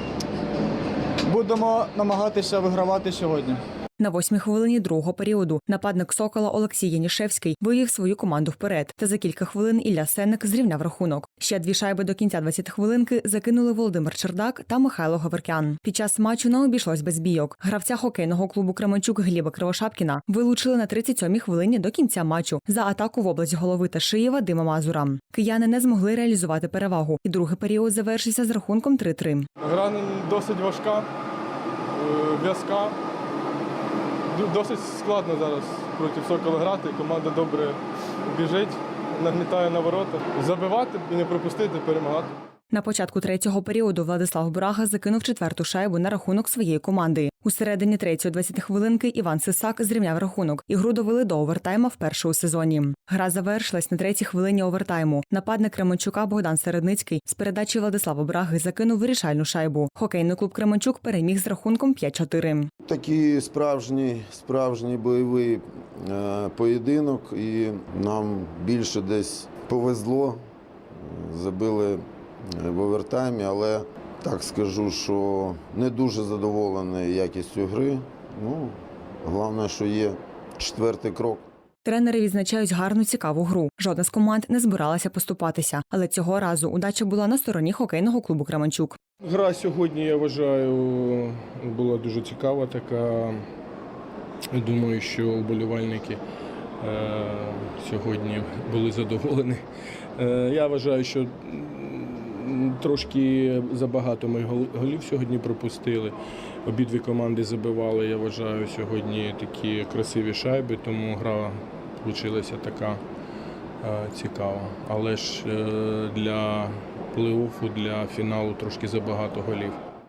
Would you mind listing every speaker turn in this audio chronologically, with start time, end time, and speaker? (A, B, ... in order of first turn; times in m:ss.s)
0:01.2-0:03.6 A
0:04.0-0:29.5 B
0:29.6-0:31.1 C
0:31.9-0:33.0 C
0:34.3-0:42.3 C
0:42.7-1:02.7 B
1:02.8-1:10.4 D
1:10.9-1:21.4 D
1:21.8-1:29.0 B
1:29.2-1:33.4 C
1:34.5-1:36.2 C
1:36.8-1:39.6 C
1:40.2-1:53.0 C
1:53.8-1:59.8 C